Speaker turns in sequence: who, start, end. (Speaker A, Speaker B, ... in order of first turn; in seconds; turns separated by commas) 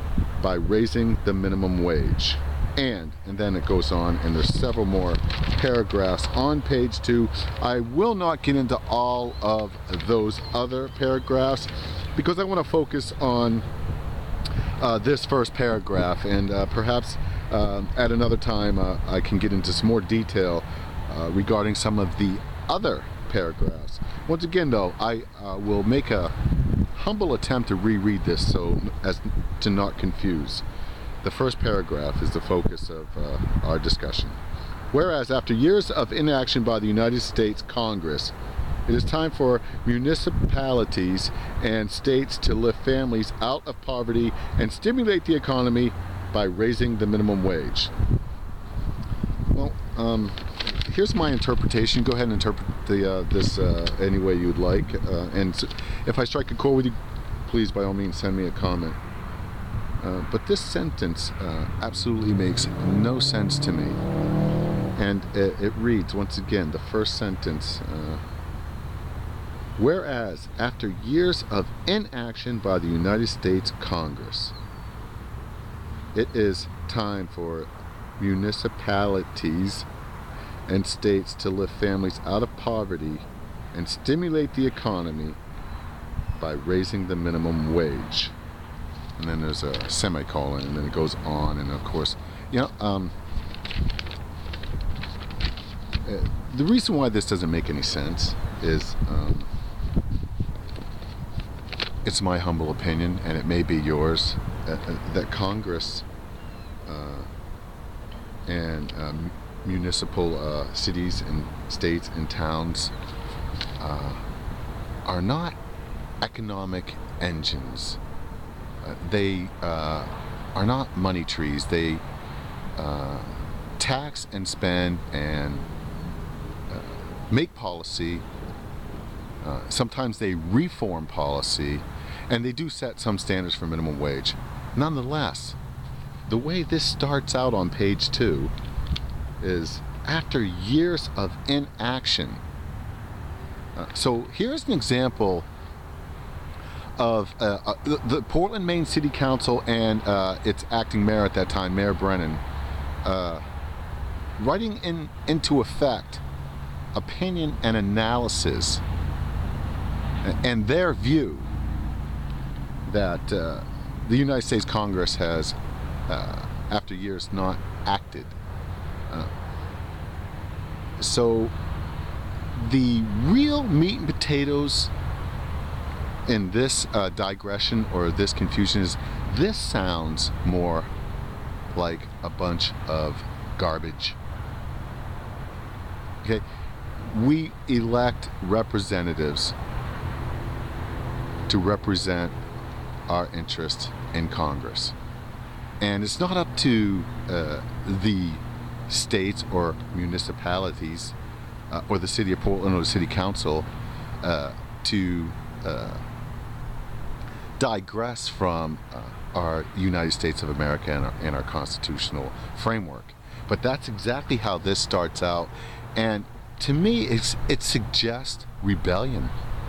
Speaker A: 0.4-13.7, Speaker A: 14.8-26.3, Speaker A: 26.9-30.6, Speaker A: 31.2-34.4, Speaker A: 34.9-38.3, Speaker A: 38.9-47.9, Speaker A: 49.5-59.0, Speaker A: 60.0-64.0, Speaker A: 65.0-68.2, Speaker A: 69.8-74.5, Speaker A: 76.1-79.9, Speaker A: 80.7-85.4, Speaker A: 86.4-88.3, Speaker A: 89.2-93.1, Speaker A: 96.0-99.5, Speaker A: 102.0-106.0, Speaker A: 106.8-107.3, Speaker A: 108.5-112.9, Speaker A: 113.8-114.2, Speaker A: 115.0-115.6, Speaker A: 116.2-118.0, Speaker A: 118.8-122.0, Speaker A: 122.8-125.7, Speaker A: 126.7-128.2, Speaker A: 129.4-135.6, Speaker A: 136.2-138.5, Speaker A: 139.4-142.4, Speaker A: 143.8-145.5, Speaker A: 147.0-152.4, Speaker A: 153.0-153.4, Speaker A: 154.4-156.2, Speaker A: 156.9-158.8, Speaker A: 160.2-161.5, Speaker A: 162.8-165.6, Speaker A: 166.1-168.3, Speaker A: 171.0-171.5, Speaker A: 172.5-174.9, Speaker A: 176.2-180.9, Speaker A: 181.7-184.2, Speaker A: 187.0-189.6, Speaker A: 191.5-192.4, Speaker A: 193.1-194.9, Speaker A: 195.8-201.2, Speaker A: 201.7-203.7, Speaker A: 204.2-206.0, Speaker A: 207.6-219.3